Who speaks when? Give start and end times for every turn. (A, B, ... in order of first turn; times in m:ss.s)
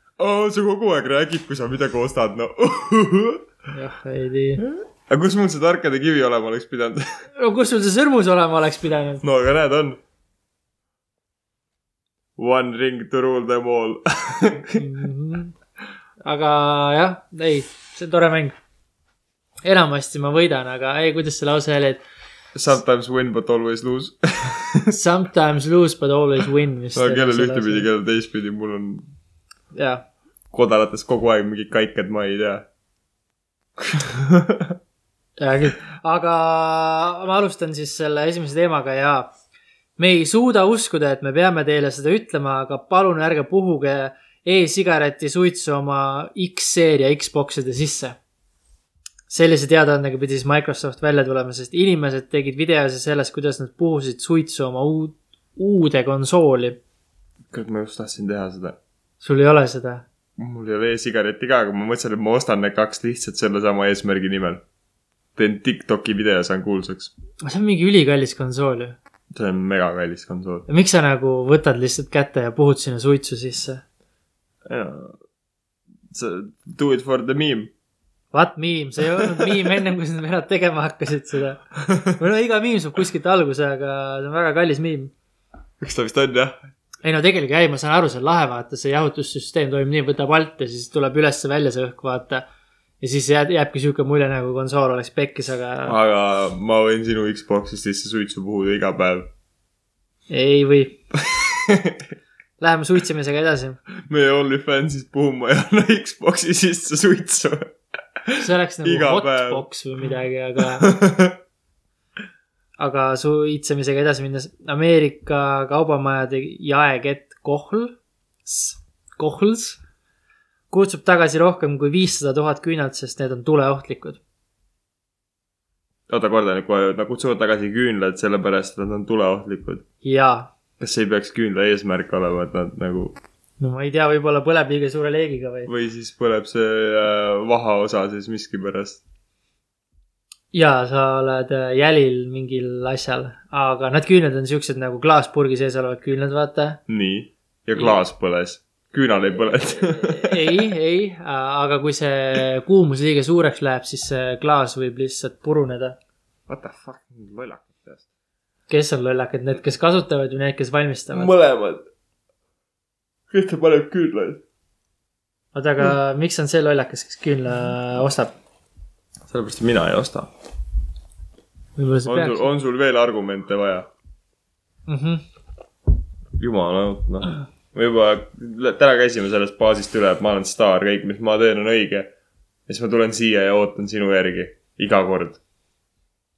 0:00.2-0:03.4 A
0:03.7-0:04.6 B
0:05.1-0:07.1 A
0:07.4-0:09.2 B
0:09.2-0:10.0 A
0:12.4-0:14.9 A
0:14.8-0:15.5 B
0:16.2-0:18.6 B
0:19.6-0:22.0 B
0:22.6-0:25.0 A
0:24.9-0:27.9 B
0:27.0-0:29.0 A
0:29.7-0:30.0 B
0:30.5-0:32.7 A
0:33.8-0:34.8 A
0:35.4-0:39.3 B
0:40.0-0:48.2 B
0:49.3-0:56.8 B
0:57.5-0:58.8 A
0:59.2-1:00.0 B
1:00.4-1:04.6 A
1:05.4-1:07.1 A
1:07.4-1:09.0 B
1:09.3-1:10.7 A
1:10.7-1:13.8 B
1:14.7-1:15.2 A
1:16.1-1:17.7 A
1:18.3-1:25.1 B
1:19.1-1:19.6 A
1:21.8-1:22.1 A
1:25.8-1:26.6 A
1:27.0-1:32.5 B
1:33.0-1:36.0 B
1:35.9-1:39.3 A
1:40.3-1:41.0 B
1:41.2-1:42.0 A
1:42.6-1:43.8 B
1:44.1-1:47.7 A
1:48.2-1:49.6 A
1:48.4-1:50.9 B
1:50.8-1:51.4 A
1:52.8-1:59.8 B
2:00.7-2:04.2 B
2:06.1-2:09.8 A
2:10.0-2:10.5 B
2:10.8-2:13.2 A
2:13.6-2:15.7 B
2:15.7-2:19.0 A
2:20.5-2:26.8 B
2:26.9-2:30.7 A
2:29.8-2:36.0 B
2:36.5-2:38.0 A
2:38.7-2:41.3 B
2:41.1-2:41.8 A
2:43.3-2:44.4 A
2:45.5-2:48.3 B
2:49.3-2:50.3 A
2:51.8-2:52.5 B
2:52.1-2:53.9 A
2:54.9-2:55.2 B
2:56.4-3:02.1 A
3:02.7-3:05.4 A